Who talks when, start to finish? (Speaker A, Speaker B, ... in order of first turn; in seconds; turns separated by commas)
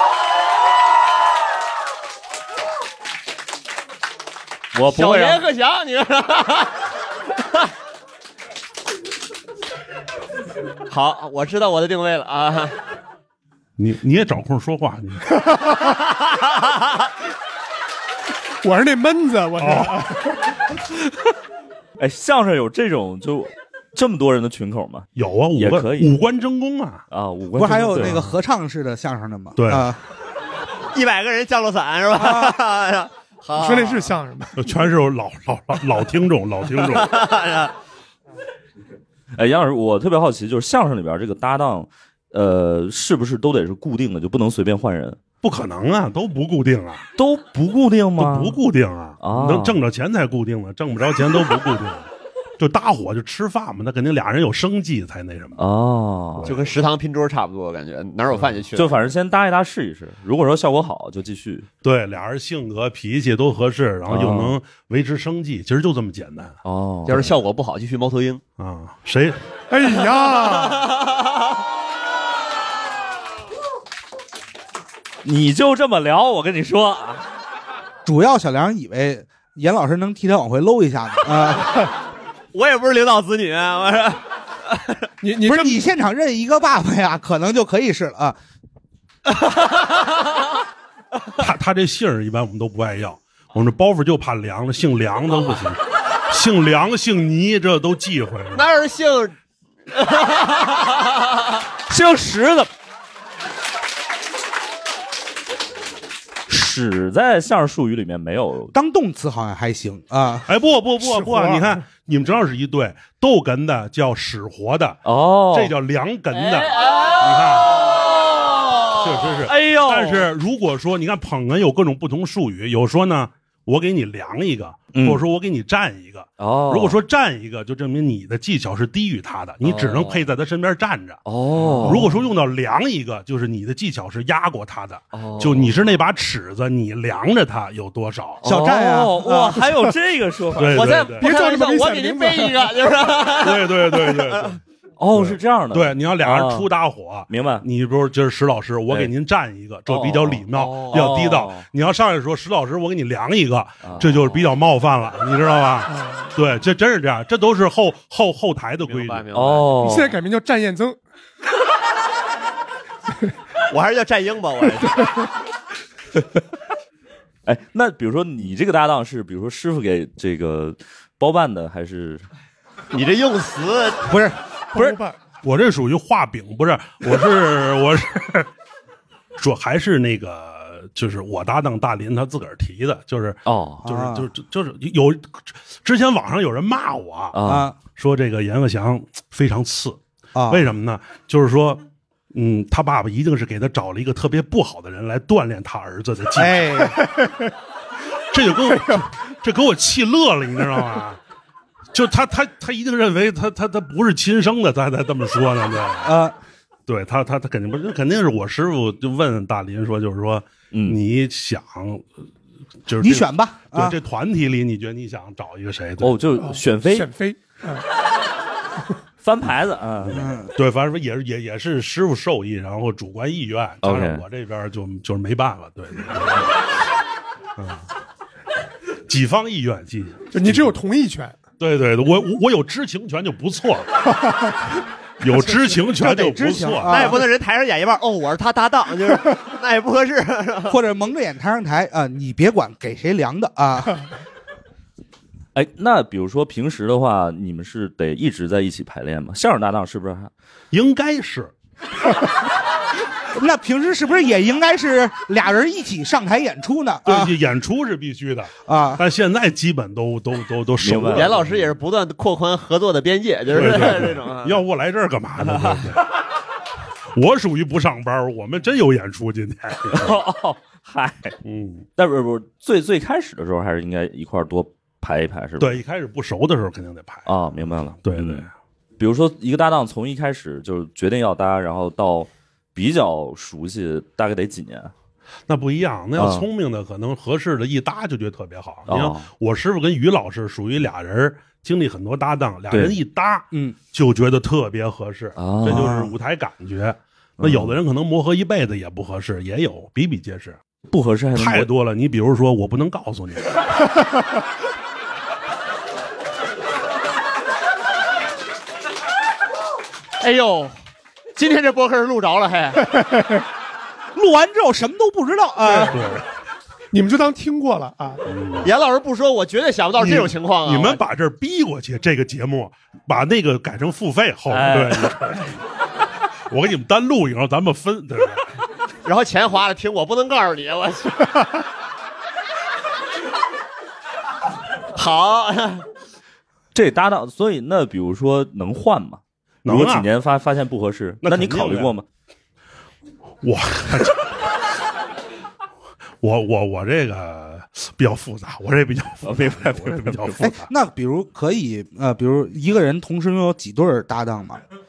Speaker A: 4.7-5.4, Speaker B: 4.9-6.7, Speaker B: 10.9-12.7, Speaker C: 13.8-15.2, Speaker D: 18.6-20.4, Speaker C: 19.6-20.0, Speaker A: 22.0-26.1, Speaker C: 25.1-27.0, Speaker A: 27.1-28.1, Speaker E: 27.6-30.0, Speaker C: 27.9-28.3, Speaker C: 29.6-29.9, Speaker B: 30.9-34.1, Speaker E: 32.2-32.5, Speaker D: 33.5-34.6, Speaker C: 34.6-37.2, Speaker B: 36.8-37.7, Speaker A: 39.4-45.2, Speaker C: 45.4-47.0, Speaker A: 47.2-48.6, Speaker C: 48.2-55.6, Speaker A: 49.2-49.8, Speaker A: 55.6-56.5, Speaker C: 56.4-56.8, Speaker B: 56.4-58.9, Speaker A: 58.7-61.7, Speaker C: 61.8-66.6, Speaker A: 64.1-64.5, Speaker A: 66.6-67.3, Speaker B: 67.1-68.4, Speaker C: 68.6-69.4, Speaker D: 69.7-70.9, Speaker B: 70.0-71.2, Speaker A: 75.2-77.2, Speaker E: 78.0-81.8, Speaker B: 82.5-85.0, Speaker D: 85.2-85.7, Speaker E: 85.4-88.3, Speaker B: 89.4-90.1, Speaker C: 91.4-98.7, Speaker B: 98.5-99.3, Speaker B: 99.9-101.5, Speaker A: 101.9-102.7, Speaker A: 106.5-108.7, Speaker E: 108.7-110.5, Speaker C: 110.5-117.8, Speaker D: 111.0-111.8, Speaker A: 115.0-115.7, Speaker C: 119.0-131.2, Speaker A: 119.5-120.3, Speaker A: 124.9-125.2, Speaker A: 126.4-127.0, Speaker A: 129.6-130.2, Speaker A: 131.2-132.1, Speaker C: 131.8-138.4, Speaker A: 135.1-135.8, Speaker A: 138.4-141.0, Speaker E: 138.4-139.9, Speaker C: 140.6-141.3, Speaker B: 140.7-144.6, Speaker D: 141.2-142.7, Speaker C: 143.4-144.6, Speaker A: 145.0-146.7, Speaker C: 145.1-159.2, Speaker A: 147.3-147.6, Speaker A: 149.9-151.7, Speaker B: 150.6-151.2, Speaker A: 153.8-154.4, Speaker D: 155.9-156.3, Speaker B: 158.8-159.7, Speaker A: 159.3-160.1, Speaker D: 159.8-161.0, Speaker B: 163.7-165.0, Speaker A: 167.4-172.2, Speaker B: 172.9-174.2, Speaker E: 174.0-174.3, Speaker D: 174.7-175.2, Speaker C: 175.4-178.5, Speaker C: 179.4-187.4, Speaker A: 183.4-183.8, Speaker E: 183.8-184.3, Speaker A: 187.3-187.7, Speaker E: 187.4-187.8, Speaker C: 187.9-196.9, Speaker E: 190.3-190.7, Speaker E: 196.3-197.0, Speaker D: 196.9-197.3, Speaker C: 198.3-201.2, Speaker C: 201.9-206.1, Speaker E: 206.0-206.3, Speaker C: 206.9-212.1, Speaker A: 210.7-211.0, Speaker C: 212.9-216.2, Speaker E: 212.9-214.0, Speaker A: 216.0-217.1, Speaker D: 216.4-217.8, Speaker A: 219.2-220.2, Speaker C: 220.0-226.5, Speaker E: 220.1-220.5, Speaker A: 223.8-224.2, Speaker C: 227.6-227.8, Speaker C: 229.1-230.7, Speaker D: 230.3-231.3, Speaker C: 231.6-233.9, Speaker C: 235.2-237.1, Speaker E: 235.8-237.2, Speaker B: 236.9-240.8, Speaker E: 240.7-244.0, Speaker A: 245.5-250.3, Speaker C: 250.7-251.5, Speaker E: 253.3-257.4, Speaker C: 257.0-261.7, Speaker E: 258.6-259.0, Speaker A: 260.8-261.3, Speaker B: 261.1-264.6, Speaker C: 263.5-266.1, Speaker B: 265.4-265.9, Speaker C: 267.1-270.1, Speaker A: 269.9-271.4, Speaker C: 271.4-271.9, Speaker A: 272.0-275.8, Speaker C: 275.6-278.5, Speaker A: 277.2-278.4, Speaker A: 279.0-284.9, Speaker C: 285.5-300.6, Speaker A: 286.2-286.4, Speaker A: 288.9-289.3, Speaker A: 292.7-292.9, Speaker A: 295.4-295.9, Speaker E: 295.6-296.1, Speaker A: 297.4-297.7, Speaker A: 300.9-301.7, Speaker C: 301.3-303.6, Speaker B: 310.2-310.8, Speaker B: 311.4-312.8, Speaker D: 312.9-313.4, Speaker E: 314.1-316.0, Speaker D: 315.6-315.9, Speaker C: 315.9-316.2, Speaker D: 316.9-318.2, Speaker C: 318.2-318.7, Speaker B: 318.6-321.0, Speaker C: 320.0-325.6, Speaker A: 324.5-325.1, Speaker C: 326.5-328.5, Speaker B: 329.1-331.6, Speaker B: 334.9-335.8, Speaker A: 336.7-342.1, Speaker C: 339.6-340.1, Speaker C: 341.2-341.9, Speaker C: 343.4-344.4, Speaker C: 346.2-350.7, Speaker A: 349.2-350.6, Speaker E: 350.7-354.6